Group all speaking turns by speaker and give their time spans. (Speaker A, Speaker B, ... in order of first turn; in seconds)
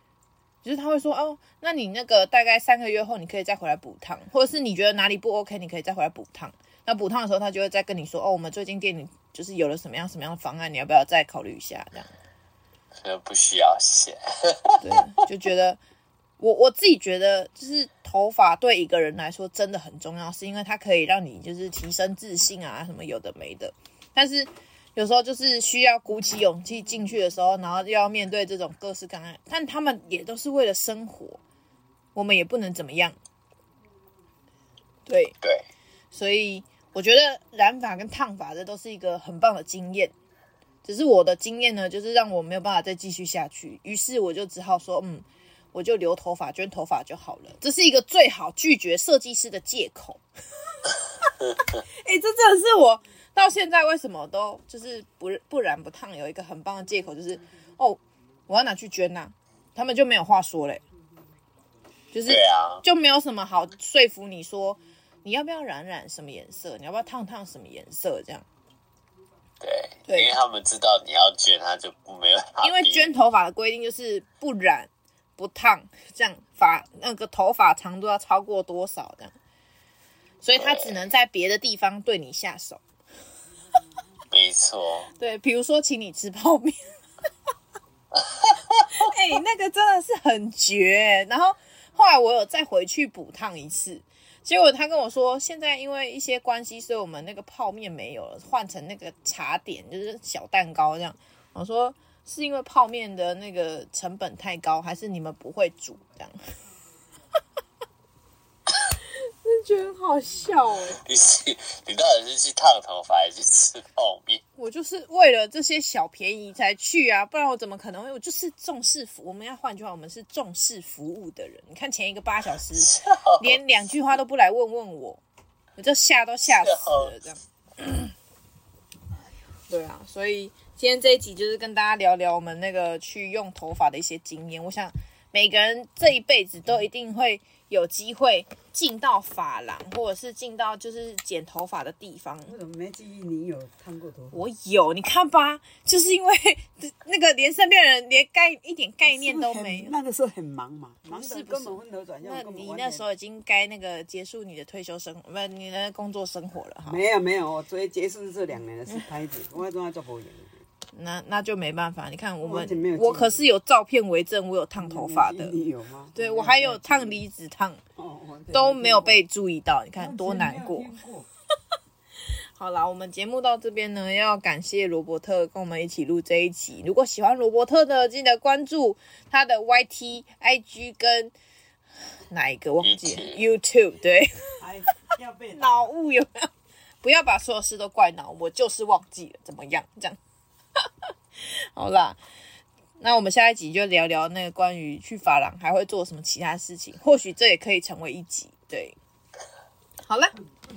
Speaker A: 0.6-12.1, 14.8-15.8, 16.4-31.4, 32.1-33.1, 35.0-35.4, 36.1-40.1, 40.8-50.2, 52.0-60.8, 62.1-68.4, 70.1-70.3, 72.6-79.3, 80.4-82.8, 85.2-86.9, 88.9-106.4, 109.4-111.0, 114.6-125.2, 125.8-128.1, 129.7-142.5, 144.3-149.9, 151.1-157.0, 160.9-165.6, 166.1-167.8, 168.5-170.9, 172.6-181.3, 182.3-184.5, 185.5-186.5, 187.0-190.2, 191.5-192.2, 193.0-198.9, 200.1-200.3
Speaker B: 13.0-14.8, 62.2-62.8, 69.6-73.2, 80.5-81.1, 84.3-85.1, 88.1-89.0, 110.9-114.4, 122.7-123.6, 126.4-127.1, 182.8-183.4
Speaker C: 142.5-144.4, 149.0-153.0, 156.8-160.6, 162.4-163.4, 164.8-167.2, 168.0-169.2, 169.9-171.3, 184.6-185.9